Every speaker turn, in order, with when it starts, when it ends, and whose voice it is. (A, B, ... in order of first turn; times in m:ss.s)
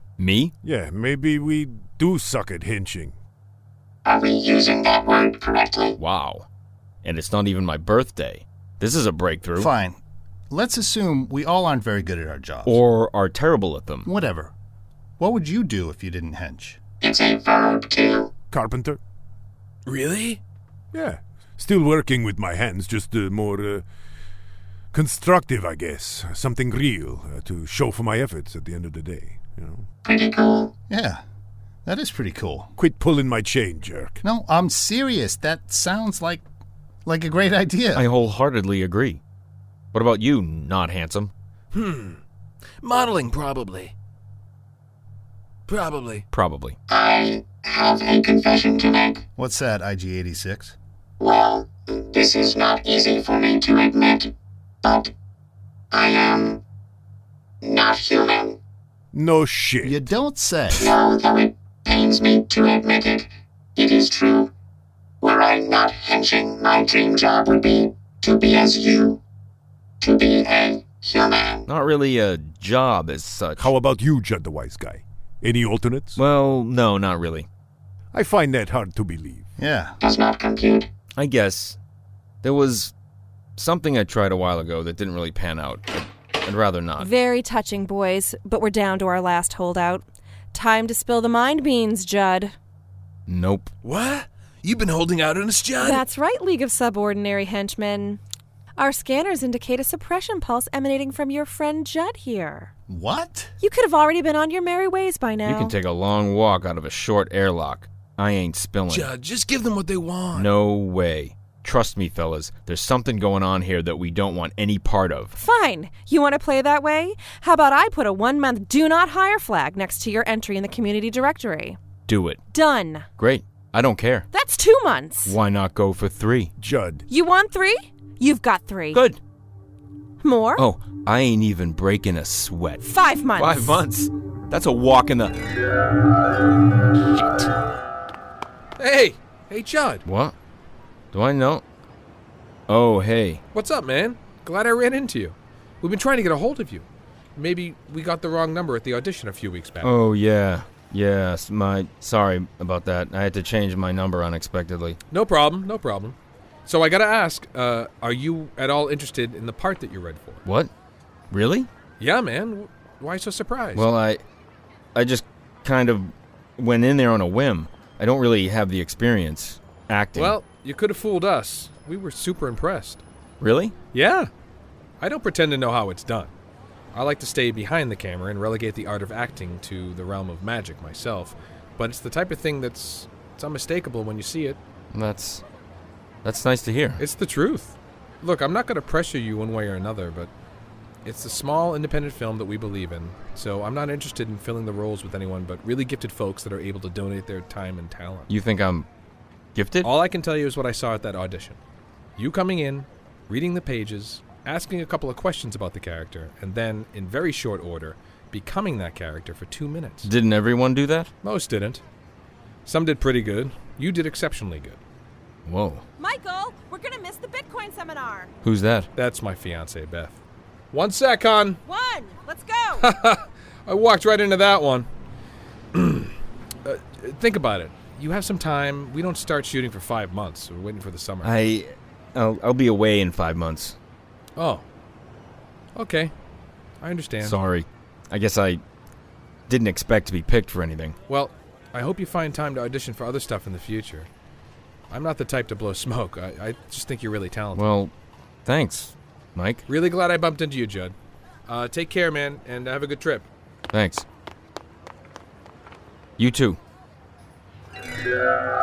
0:00.2-0:00.5 A
0:00.6-0:03.2 B
0:04.0-0:06.0 C
0:06.0-0:06.5 A
0:07.0-0:09.7 A
0:09.6-0:10.0 D
0:10.5-0:12.8 D
0:12.7-0:14.1 A
0:14.1-0:14.5 D
0:15.2-0:16.8 D
0:17.0-0:18.3 C
0:18.5-0:19.0 B
0:19.9-0:20.4 E
0:20.9-0:23.8 B
0:24.9-0:29.8 B
0:30.0-0:30.7 C
0:30.9-0:31.2 D
0:31.9-0:32.8 D
0:32.8-0:34.2 B
0:34.2-0:36.4 D
0:37.0-0:38.1 D
0:38.0-0:39.2 A
0:39.9-0:41.3 A
0:41.7-0:42.2 E
0:42.8-0:43.9 E
0:45.7-0:46.2 E
0:46.3-0:46.8 A
0:46.9-0:49.2 C
0:49.4-0:50.8 D
0:51.2-0:54.3 C
0:54.8-0:55.1 C
0:55.9-0:56.6 C
0:57.6-0:58.6 C
0:59.1-1:00.0 B
0:59.8-1:00.8 D
1:00.7-1:04.5 C
1:05.2-1:09.2 C
1:10.0-1:11.7 C
1:11.7-1:13.7 A
1:13.6-1:16.2 B
1:16.2-1:17.5 A
1:18.1-1:19.5 B
1:19.6-1:20.0 D
1:20.0-1:20.9 C
1:21.2-1:21.8 A
1:22.4-1:22.9 A
1:23.6-1:27.1 A
1:27.0-1:32.5 F
1:33.3-1:33.7 A
1:33.8-1:36.0 E
1:35.8-1:38.2 F
1:38.8-1:42.7 F
1:42.9-1:43.5 D
1:43.6-1:45.7 F
1:45.4-1:49.1 A
1:48.9-1:50.6 E
1:50.3-1:55.4 A
1:55.4-2:01.8 F
2:02.1-2:02.4 A
2:02.5-2:03.1 F
2:03.2-2:04.3 A
2:04.3-2:05.4 F
2:05.2-2:06.5 A
2:06.6-2:07.0 B
2:07.1-2:09.0 F
2:08.9-2:09.2 A
2:10.2-2:10.6 F
2:10.6-2:12.8 A
2:12.8-2:13.8 F
2:13.4-2:15.4 A
2:18.8-2:20.0 G
2:20.1-2:20.3 A
2:21.1-2:21.6 A
2:22.7-2:23.4 A
2:23.5-2:29.9 G
2:29.8-2:35.0 A
2:35.1-2:40.4 G
2:40.4-2:40.7 A
2:41.3-2:41.7 A
2:42.0-2:43.9 G
2:43.8-2:44.2 A
2:45.0-2:50.4 A
2:50.2-2:53.0 G
2:53.4-2:53.8 A
2:53.9-2:54.3 G
2:55.0-2:56.3 G
2:56.9-3:04.6 G
3:04.9-3:05.4 A
3:06.2-3:07.0 A
3:07.0-3:10.3 G
3:11.0-3:18.3 G
3:18.3-3:18.9 A
3:19.6-3:19.9 A
3:19.8-3:21.6 G
3:22.2-3:30.1 G
3:30.0-3:31.1 A
3:31.2-3:31.8 G
3:32.6-3:34.8 G
3:35.5-3:35.8 A
3:36.0-3:38.3 F
3:38.4-3:38.9 A
3:39.0-3:40.2 G
3:40.7-3:41.6 G
3:41.6-3:42.9 F
3:42.8-3:44.9 G
3:45.7-3:46.1 G
3:46.6-3:51.4 G
3:51.2-3:53.8 A
3:54.4-3:54.6 G
3:55.8-3:56.1 G
3:56.8-3:57.4 G
3:57.2-3:58.6 A
3:59.5-4:01.0 A
4:01.1-4:04.1 G
4:04.9-4:07.7 G
4:07.6-4:07.9 A
4:08.4-4:09.6 A
4:09.7-4:11.0 G
4:11.5-4:13.3 G
4:13.7-4:14.1 A
4:16.2-4:16.6 A